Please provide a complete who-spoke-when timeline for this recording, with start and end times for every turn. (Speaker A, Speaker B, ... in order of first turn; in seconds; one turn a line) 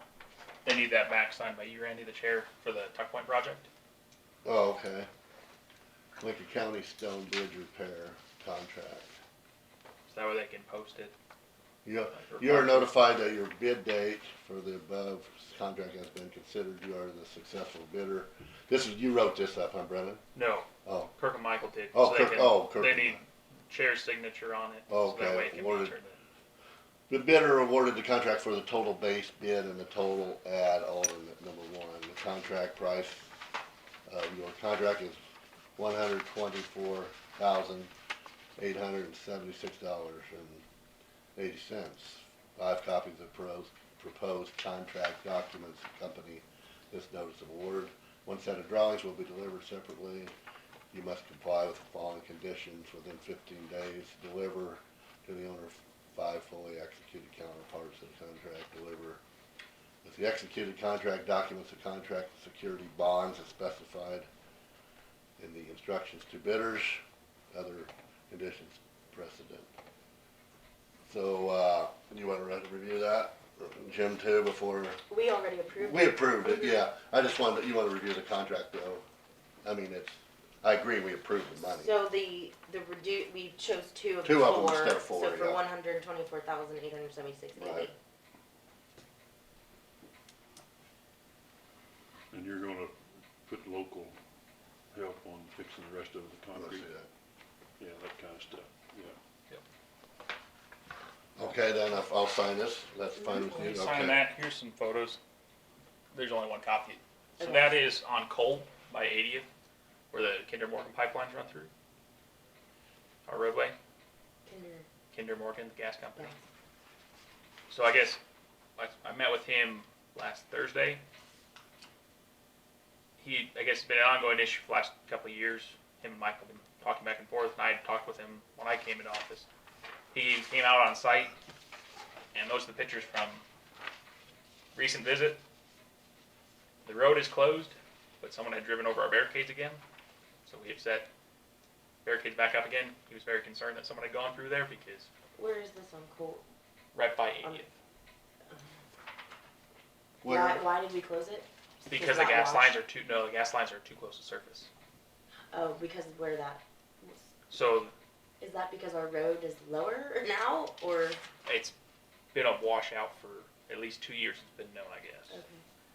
Speaker A: 0.7-3.7
Speaker B: 4.5-5.1
Speaker B: 6.2-9.1
Speaker A: 10.1-11.1
Speaker B: 11.8-20.2
Speaker A: 12.1-12.9
Speaker A: 20.3-20.7
Speaker B: 20.9-21.1
Speaker A: 21.2-26.2
Speaker B: 21.9-23.2
Speaker B: 24.9-26.0
Speaker B: 27.1-33.3
Speaker B: 34.1-35.2
Speaker B: 35.8-37.9
Speaker B: 38.6-40.6
Speaker B: 41.4-50.3
Speaker B: 50.9-59.2
Speaker B: 60.0-64.3
Speaker B: 65.4-69.7
Speaker B: 71.1-75.0
Speaker C: 75.1-76.9
Speaker B: 75.8-79.0
Speaker B: 79.6-82.0
Speaker C: 81.7-87.9
Speaker B: 84.2-85.7
Speaker B: 87.6-87.9
Speaker D: 92.3-94.2
Speaker D: 94.9-96.9
Speaker B: 96.5-97.1
Speaker D: 97.8-99.2
Speaker B: 101.4-104.2
Speaker C: 103.2-103.8
Speaker A: 103.6-105.2
Speaker A: 106.1-109.5
Speaker C: 107.4-107.8
Speaker A: 110.1-111.7
Speaker A: 113.3-113.8
Speaker C: 114.5-114.9
Speaker A: 115.1-116.4
Speaker A: 117.7-118.2
Speaker A: 118.8-121.0
Speaker A: 123.2-129.5
Speaker A: 130.1-131.3
Speaker A: 132.3-133.4
Speaker A: 134.8-135.4
Speaker A: 136.8-139.8
Speaker A: 140.5-141.1
Speaker A: 142.1-145.1
Speaker C: 145.3-146.4
Speaker A: 146.9-147.7
Speaker B: 150.2-150.7
Speaker C: 150.2-152.8
Speaker A: 151.8-154.7
Speaker C: 155.5-157.3
Speaker A: 157.5-157.9
Speaker C: 158.4-161.2
Speaker A: 161.4-161.7
Speaker A: 162.3-165.4
Speaker C: 165.3-165.6